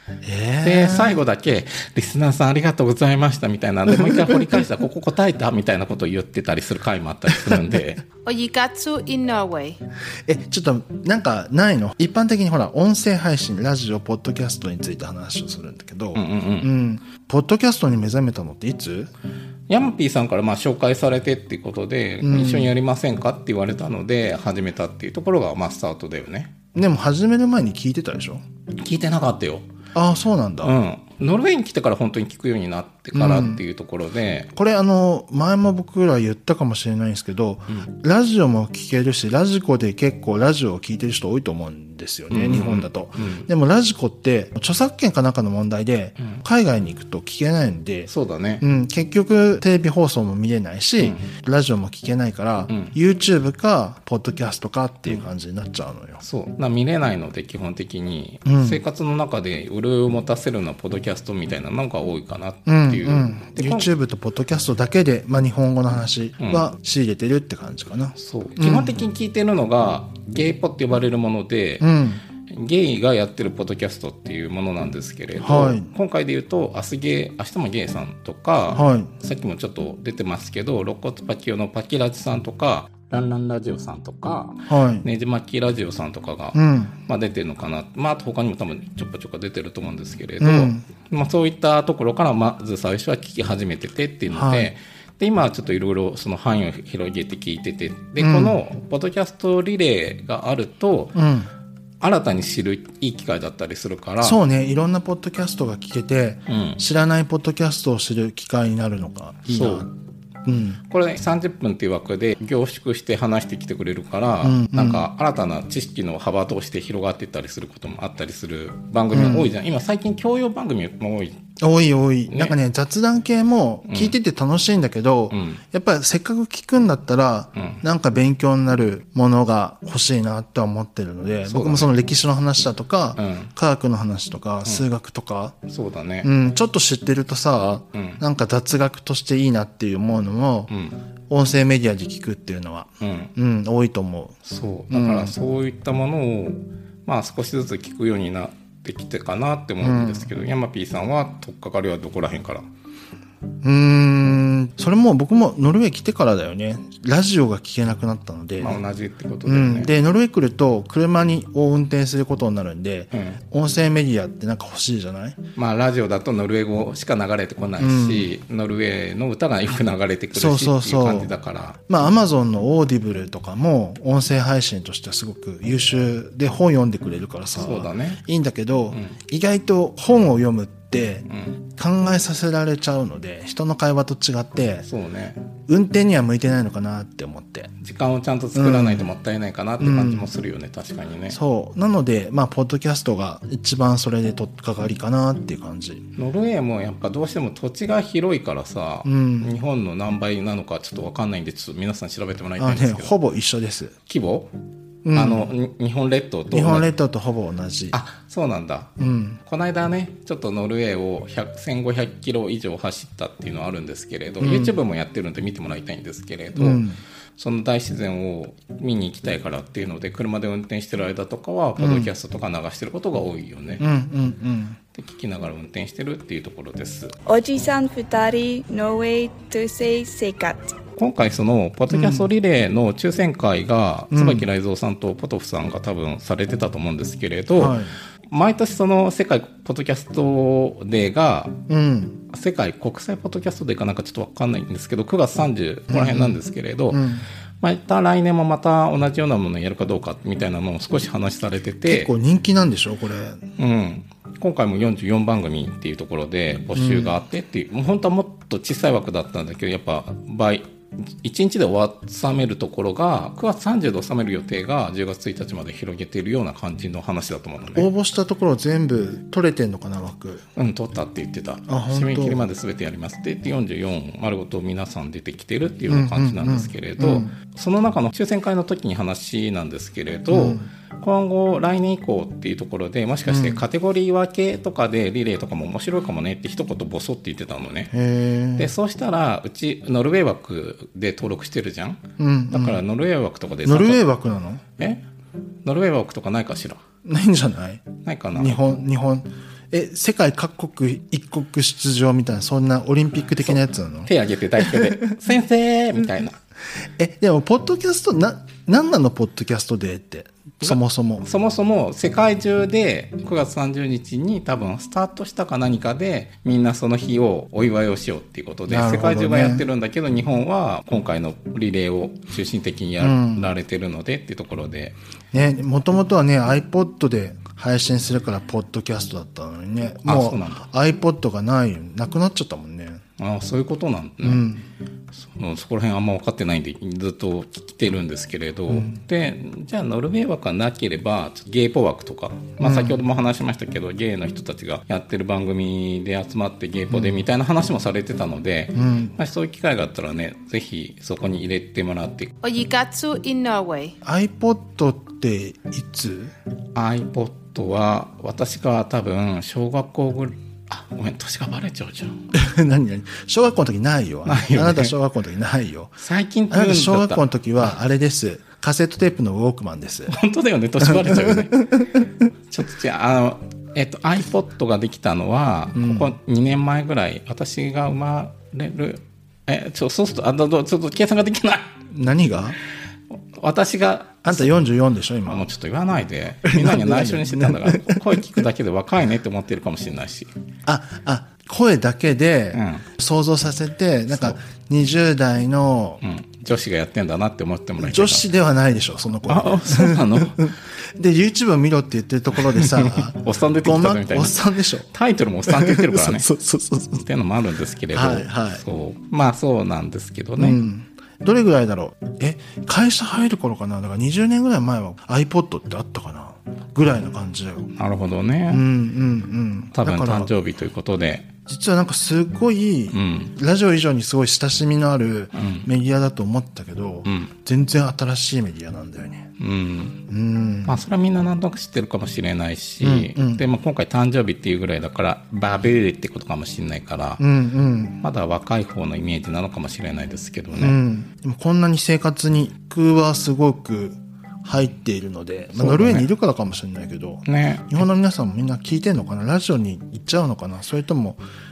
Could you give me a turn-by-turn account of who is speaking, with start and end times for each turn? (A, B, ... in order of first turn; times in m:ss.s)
0:00.2-0:01.2 A
0:00.6-0:08.0 B
0:04.1-0:04.6 A
0:08.2-0:09.8 C
0:10.3-0:19.1 A
0:16.1-0:16.7 B
0:19.7-0:26.5 B
0:22.2-0:22.7 A
0:26.7-0:28.4 A
0:28.8-0:29.7 B
0:29.9-0:30.8 A
0:30.6-0:34.5 B
0:33.2-0:33.6 A
0:34.6-0:48.1 A
0:42.3-0:43.5 B
0:48.1-0:48.6 B
0:48.6-0:56.2 A
0:51.0-0:51.3 B
0:56.2-1:03.9 B
0:58.4-0:58.8 A
1:02.6-1:08.9 A
1:06.4-1:06.7 B
1:08.2-1:11.9 B
1:11.8-1:12.2 A
1:12.5-1:41.2 B
1:15.4-1:15.9 A
1:18.7-1:19.1 A
1:24.7-1:25.1 A
1:26.6-1:26.9 A
1:30.4-1:30.8 A
1:34.3-1:34.7 A
1:38.2-1:38.6 A
1:41.1-1:41.5 A
1:42.0-1:44.4 B
1:44.2-1:49.9 A
1:46.5-1:46.8 B
1:49.5-1:49.9 B
1:50.4-1:50.8 A
1:50.9-2:01.4 B
1:54.4-1:55.0 A
1:59.1-1:59.5 A
2:01.6-2:15.6 A
2:02.3-2:02.6 B
2:03.9-2:04.1 B
2:05.3-2:05.6 B
2:11.4-2:11.9 B
2:13.2-2:13.5 B
2:15.7-2:16.3 B
2:16.2-2:20.7 A
2:17.9-2:18.2 B
2:20.7-2:21.0 B
2:21.3-2:24.4 A
2:23.0-2:23.3 B
2:24.4-2:32.6 B
2:24.9-2:25.3 A
2:29.8-2:30.3 A
2:33.6-2:38.8 A
2:38.6-2:39.9 B
2:39.4-2:45.4 A
2:43.1-2:43.4 B
2:45.6-2:51.8 B
2:47.8-2:48.3 A
2:50.3-2:51.3 A
2:51.9-3:04.9 A
2:57.6-2:58.2 B
3:01.3-3:01.5 B
3:04.8-3:05.4 B
3:05.7-3:07.7 A
3:07.8-3:11.4 B
3:08.5-3:09.1 A
3:09.8-3:10.3 A
3:11.3-3:16.1 A
3:16.2-3:23.1 B
3:19.0-3:19.6 A
3:22.6-3:23.9 A
3:24.1-3:24.5 B
3:25.0-3:25.5 A
3:25.1-3:26.9 B
3:26.5-3:28.0 A
3:27.9-3:28.9 B
3:29.0-3:29.4 A
3:29.4-3:36.8 B
3:34.4-3:34.8 A
3:36.6-3:37.0 A
3:37.4-3:43.8 B
3:41.8-3:42.1 A
3:43.8-3:44.8 A
3:44.9-3:47.1 B
3:47.3-3:50.8 D
3:51.0-4:01.6 B
3:51.9-3:52.3 A
3:54.1-3:54.5 A
3:57.6-3:57.9 A
4:01.7-4:02.2 A
4:02.3-4:07.1 B
4:05.9-4:06.4 A
4:06.9-4:07.3 A
4:07.6-4:12.1 B
4:11.8-4:13.4 A
4:13.6-4:20.6 B
4:16.8-4:17.1 A
4:21.2-4:27.9 B
4:27.7-4:30.4 A
4:30.6-4:47.9 B
4:31.7-4:32.4 A
4:35.9-4:37.3 A
4:40.3-4:40.7 A
4:43.3-4:43.6 A
4:47.9-4:48.7 A
4:48.6-4:54.0 B
4:52.2-4:52.8 A
4:53.6-4:54.6 A
4:55.6-4:56.8 B
4:57.0-5:05.1 A
4:58.0-4:58.6 B
5:03.4-5:06.4 B
5:07.0-5:11.3 A
5:10.6-5:25.0 B
5:18.7-5:19.7 A
5:23.0-5:23.5 A
5:25.3-5:33.0 A
5:30.0-5:30.6 B
5:33.2-5:34.5 B
5:34.2-5:34.6 A
5:35.1-5:52.3 B
5:38.7-5:38.9 A
5:42.6-5:43.0 A
5:46.9-5:47.2 A
5:48.8-5:49.1 A
5:52.4-5:53.9 C
5:54.0-5:56.3 A
5:56.8-6:02.2 B
6:02.3-6:06.0 A
6:04.3-6:04.9 B
6:06.0-6:07.2 B
6:06.5-6:10.2 A
6:10.1-6:11.8 B
6:10.8-6:11.9 A
6:12.5-6:21.7 B
6:15.8-6:16.1 A
6:21.9-6:22.6 A
6:23.4-6:24.5 B
6:24.2-6:25.5 A
6:25.3-6:30.3 B
6:26.4-6:28.4 A
6:30.6-6:36.0 A
6:32.5-6:32.9 B
6:36.0-6:38.2 B
6:37.8-6:44.9 A
6:39.3-6:40.5 B
6:42.5-6:44.4 B
6:44.9-6:46.3 B
6:45.5-6:47.0 A
6:46.9-6:50.6 B
6:47.9-6:48.6 A
6:50.4-6:57.7 A
6:57.8-6:58.6 B
6:58.5-7:00.3 A
6:59.8-7:01.3 B
7:01.4-7:09.3 A
7:02.9-7:03.3 B
7:05.4-7:05.7 B
7:07.0-7:07.3 B
7:09.4-7:10.1 B
7:10.1-7:10.8 A
7:10.6-7:17.2 B
7:12.8-7:13.4 A
7:17.2-7:18.0 A
7:18.0-7:20.8 B
7:20.6-7:31.2 A
7:25.6-7:26.1 B
7:27.3-7:27.8 B